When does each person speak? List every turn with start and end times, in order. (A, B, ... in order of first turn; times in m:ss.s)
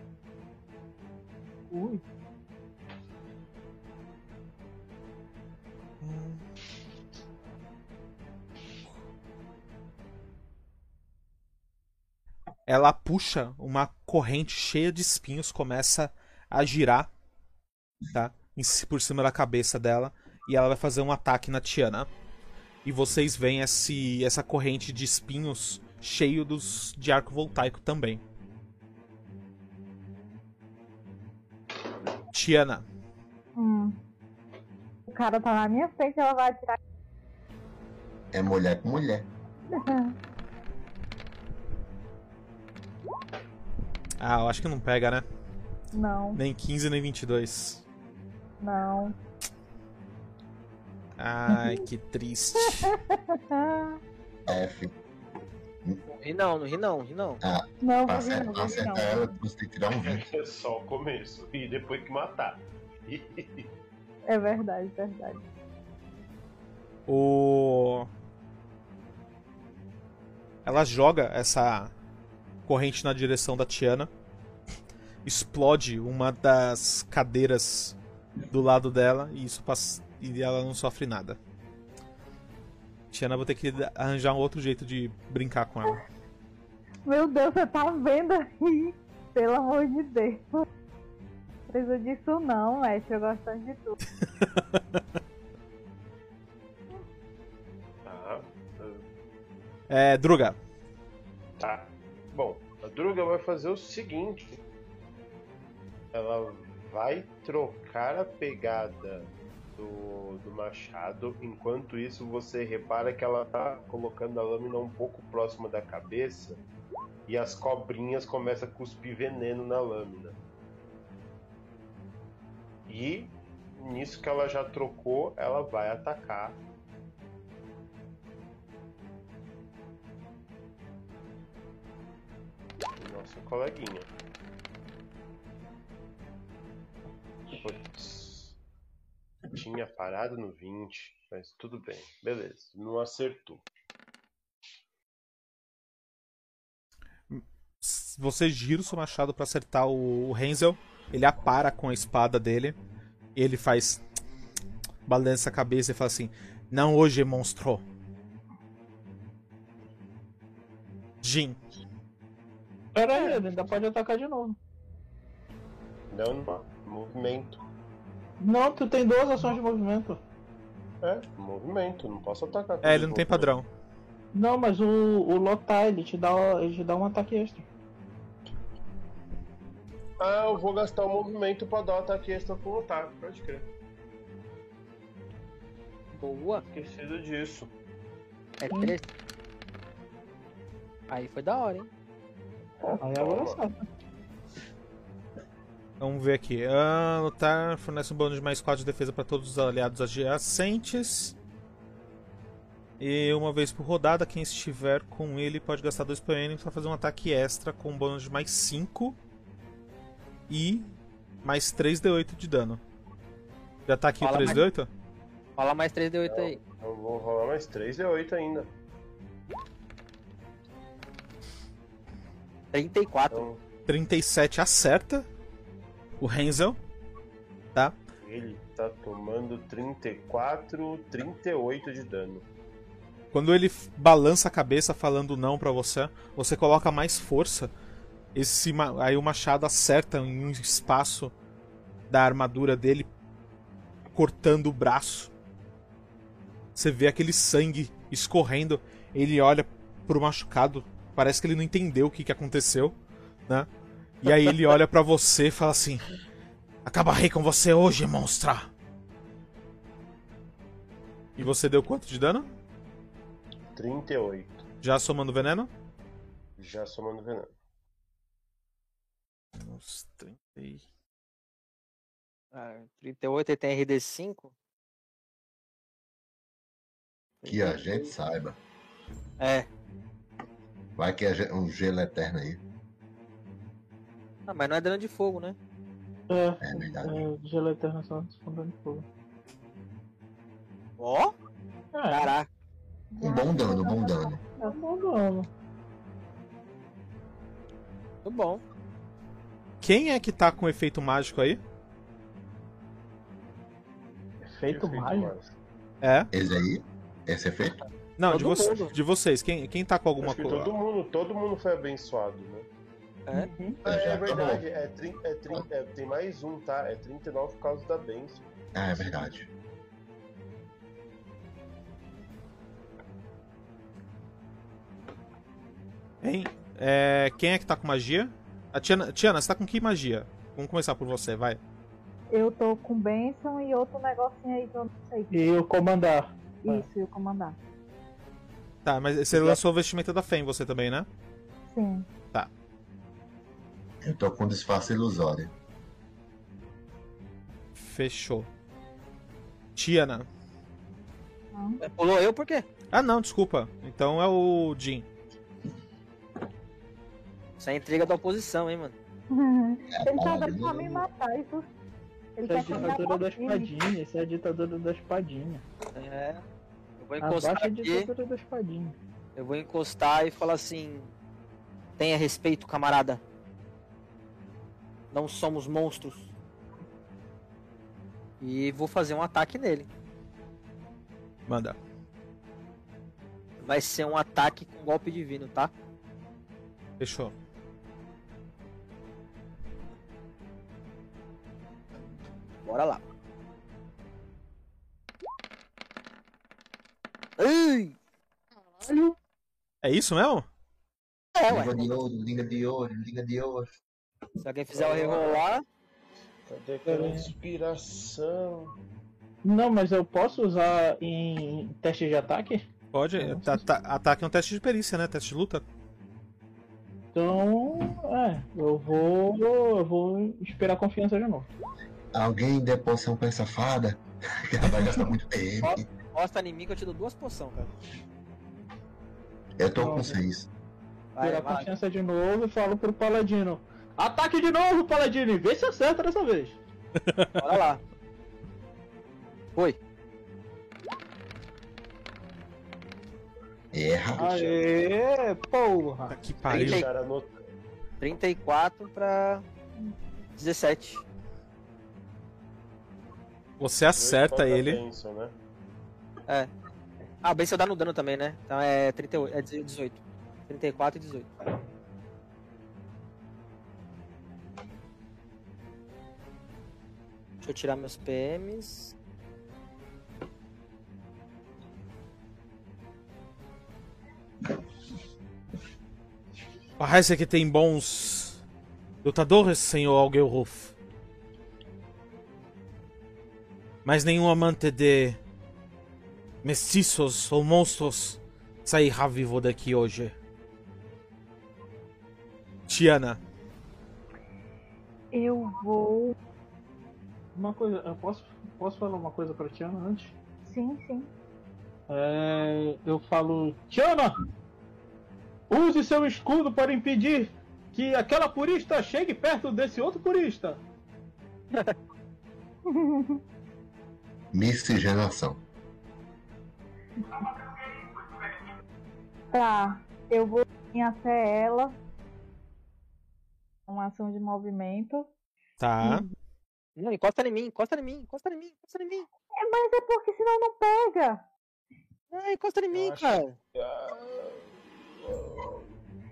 0:01.7-0:02.0 A
0:06.0-0:06.4 B
0:12.7-0:17.1 B
0:18.1-0:22.1 B
0:22.8-0:28.2 B
0:32.3-0:32.8 B
0:33.6-0:34.0 C
0:35.1-0:36.8 C
0:38.3-0:39.3 D
0:39.7-0:40.2 C
0:44.2-0:45.2 B
0:45.9-0:46.4 C
0:46.4-0:47.8 B
0:48.6-0:49.2 C
0:51.2-0:52.9 B
0:51.5-0:51.8 C
0:52.8-0:54.0 C
0:54.5-0:54.9 D
0:56.1-0:57.4 E
0:57.4-1:00.3 D
0:57.8-0:59.4 C
1:00.0-1:03.7 F
1:04.3-1:05.4 C
1:07.1-1:08.1 B
1:10.6-1:11.9 B
1:12.7-1:14.1 B
1:15.2-1:18.0 B
1:18.5-1:21.4 B
1:23.1-1:26.0 B
1:27.1-1:30.7 C
1:31.7-1:34.0 C
1:34.6-1:35.0 B
1:38.0-1:39.0 F
1:39.9-1:40.6 B
1:41.6-1:44.6 F
1:46.1-1:56.6 F
1:57.3-2:00.4 F
2:02.9-2:06.6 F
2:13.0-2:14.1 F
2:17.6-2:18.6 F
2:19.5-2:23.6 F
2:27.3-2:32.8 B
2:33.4-2:34.0 B
2:35.1-2:37.8 B
2:41.2-2:41.6 B
2:43.0-2:44.6 A
2:46.1-2:47.6 F
2:48.4-2:50.2 A
2:51.0-2:53.5 F
2:52.8-2:53.7 B
2:54.3-2:57.7 A
3:00.2-3:03.7 F
3:06.1-3:06.6 E
3:06.7-3:07.7 F
3:08.6-3:09.1 E
3:11.1-3:11.9 E
3:13.0-3:13.8 A
3:13.1-3:13.6 F
3:16.0-3:21.4 B
3:23.0-3:29.2 B
3:30.5-3:32.8 B
3:33.9-3:34.9 B
3:34.2-3:34.6 E
3:35.6-3:36.6 E
3:36.3-3:38.7 F
3:42.7-3:43.5 E
3:43.3-3:43.6 F
3:43.9-3:45.3 B
3:46.2-3:46.8 B
3:48.2-3:52.4 F
3:53.3-3:57.7 B
3:58.4-4:01.3 B
4:02.1-4:03.1 B
4:04.1-4:05.3 B
4:06.8-4:13.0 B
4:14.2-4:16.2 B
4:16.8-4:18.7 B
4:21.4-4:22.5 B
4:23.8-4:24.6 F
4:24.8-4:25.7 B
4:26.6-4:27.5 F
4:29.6-4:30.8 B
4:32.5-4:34.5 E
4:37.4-4:38.1 E
4:37.5-4:38.6 D
4:39.4-4:39.7 E
4:41.0-4:42.6 D
4:44.5-4:45.6 E
4:46.3-4:49.1 A
4:46.6-4:47.3 D
4:51.0-4:51.3 E
4:51.9-4:52.3 A
4:52.1-4:52.5 E
4:53.2-4:54.8 C
4:53.2-4:54.4 D
4:54.6-4:55.5 A
4:58.2-4:58.6 E
4:59.8-5:01.6 B
5:04.5-5:05.3 A
5:04.7-5:05.5 F
5:06.0-5:06.3 B
5:06.3-5:07.8 D
5:08.2-5:10.7 B
5:08.3-5:08.9 E
5:10.2-5:12.7 F
5:13.3-5:13.8 A
5:13.8-5:14.6 D
5:13.8-5:18.4 F
5:18.7-5:19.5 D
5:26.2-5:31.6 B
5:32.3-5:35.4 C
5:35.3-5:36.9 A
5:36.6-5:37.6 C
5:38.8-5:41.1 B
5:39.3-5:39.6 A
5:41.7-5:42.1 C
5:44.0-5:45.5 D
5:47.8-5:48.5 B
5:49.8-5:50.3 B
5:51.5-5:51.8 C
5:51.8-5:52.7 E
5:52.9-5:55.1 B
5:57.6-5:59.0 E
5:59.3-6:01.7 C
5:59.9-6:01.1 D
6:02.4-6:03.7 C
6:02.5-6:05.6 A
6:06.0-6:06.4 E
6:07.0-6:08.1 E
6:07.2-6:09.0 A
6:09.4-6:11.1 E
6:12.0-6:13.2 E
6:15.1-6:16.3 E
6:18.4-6:19.9 E
6:21.5-6:21.8 B
6:23.6-6:25.7 E
6:27.0-6:27.3 B
6:32.6-6:33.0 E
6:37.4-6:38.0 E
6:38.7-6:39.1 E
6:39.8-6:40.5 B
6:41.4-6:41.8 E
6:41.5-6:43.8 D
6:44.4-6:45.6 E
6:44.7-6:45.4 F
6:46.5-6:48.7 F
6:46.8-6:47.3 A
6:49.4-6:52.6 A
6:52.9-6:55.6 B
6:53.2-6:53.6 A
6:57.1-7:01.5 A
7:02.1-7:05.9 D
7:05.6-7:07.7 E
7:09.6-7:10.5 D
7:09.8-7:10.2 A
7:11.2-7:11.7 E
7:11.2-7:16.6 A
7:17.0-7:17.6 B
7:17.4-7:17.8 E
7:23.7-7:24.5 D
7:24.2-7:26.2 A
7:24.2-7:24.5 F
7:26.1-7:26.9 B
7:26.5-7:27.3 F
7:26.5-7:26.9 E
7:28.0-7:29.4 E
7:30.4-7:31.0 E
7:33.6-7:34.8 B
7:33.9-7:35.3 F
7:37.2-7:41.4 E
7:47.4-7:48.9 E
7:56.8-7:58.4 B
7:59.0-8:00.7 B
8:03.8-8:05.2 B
8:06.4-8:10.2 B
8:12.7-8:13.2 B
8:15.1-8:16.2 C
8:17.4-8:20.2 A
8:20.4-8:21.1 C
8:21.9-8:24.2 A
8:25.5-8:30.6 A
8:32.7-8:33.2 C
8:34.3-8:35.4 D
8:39.3-8:41.8 C
8:43.7-8:45.1 C
8:45.6-8:46.1 B
8:45.8-8:46.1 C
8:46.8-8:49.1 E
8:49.4-8:51.2 C
8:52.1-8:53.4 E
8:52.8-8:53.0 F
8:53.6-8:55.7 F